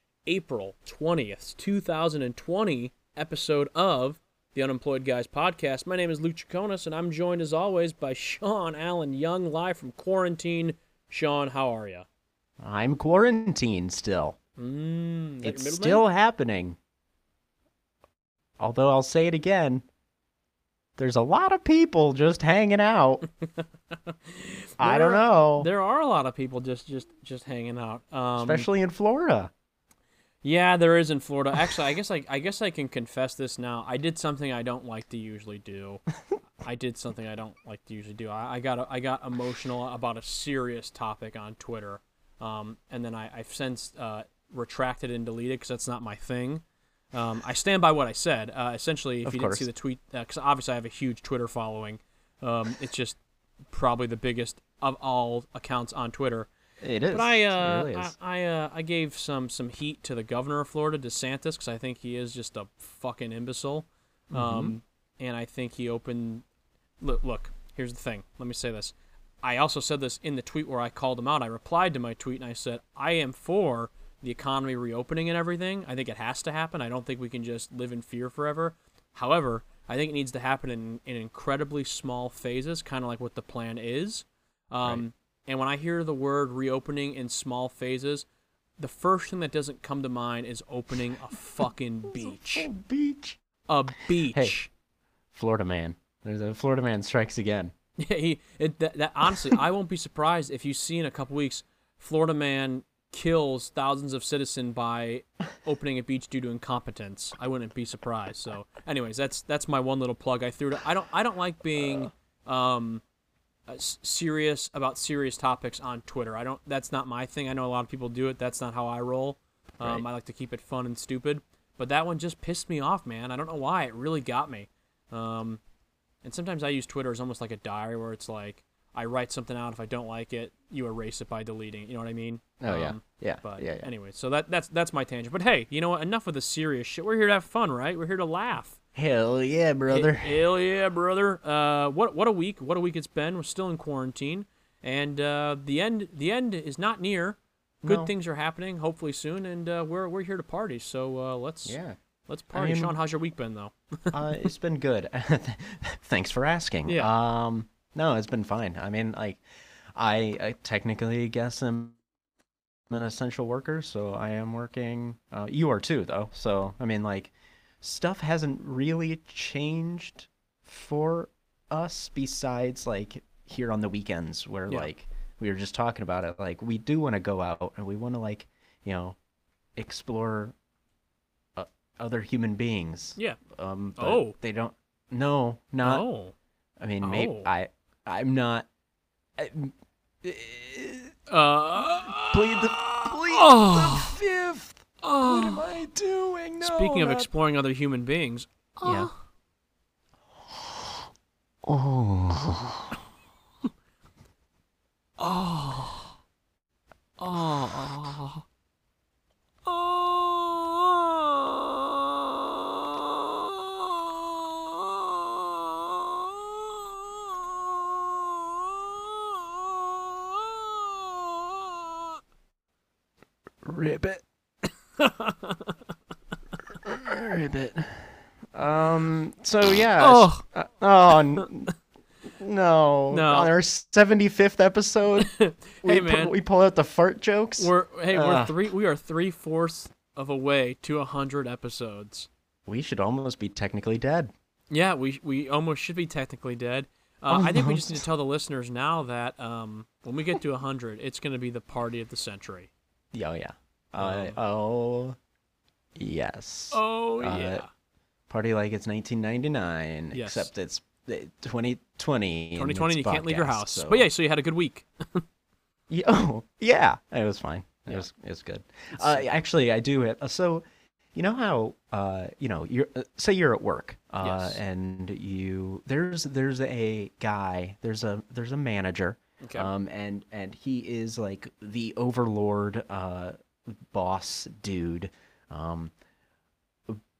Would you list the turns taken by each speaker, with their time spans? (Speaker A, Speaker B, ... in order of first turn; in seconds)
Speaker A: 0.2-12.1, 14.6-16.0, 23.5-28.7, 30.4-53.2, 53.7-56.5, 57.1-66.4, 67.0-88.2, 88.8-92.7, 93.7-94.7, 98.0-113.0, 113.7-125.6, 126.2-138.8, 139.9-154.5, 156.8-157.1, 184.0-184.3, 185.8-186.3, 187.0-187.5, 191.3-194.2, 195.0-195.7, 196.6-199.2, 205.2-206.0, 207.2-208.4, 209.7-216.1, 219.2-221.8, 225.0-225.8, 230.0-230.4, 233.1-233.5, 235.2-236.3, 237.6-242.3, 244.7-252.7, 254.0-254.4, 256.7-257.7, 260.1-260.5, 262.6-265.2, 274.2-274.6, 279.4-279.7
Speaker B: 12.6-14.4, 15.4-16.8, 18.6-19.9, 21.0-23.2, 24.8-25.7, 28.4-29.5, 49.2-49.7, 56.8-58.1, 64.3-64.7, 92.1-93.4, 94.3-94.6, 95.3-97.7, 99.3-99.6, 132.6-133.9, 138.9-140.4, 147.8-148.1, 151.7-151.9, 152.5-152.9, 154.1-159.4, 159.9-162.0, 162.9-179.2, 179.8-180.5, 181.6-186.1, 186.8-188.7, 189.4-191.2, 192.2-197.3, 198.8-199.1, 200.6-200.9, 201.6-202.9, 223.6-224.2, 226.8-231.7, 232.3-235.3, 235.8-238.6, 242.7-244.3, 247.3-248.0, 253.1-255.2, 256.0-257.6, 258.3-264.1, 265.9-285.9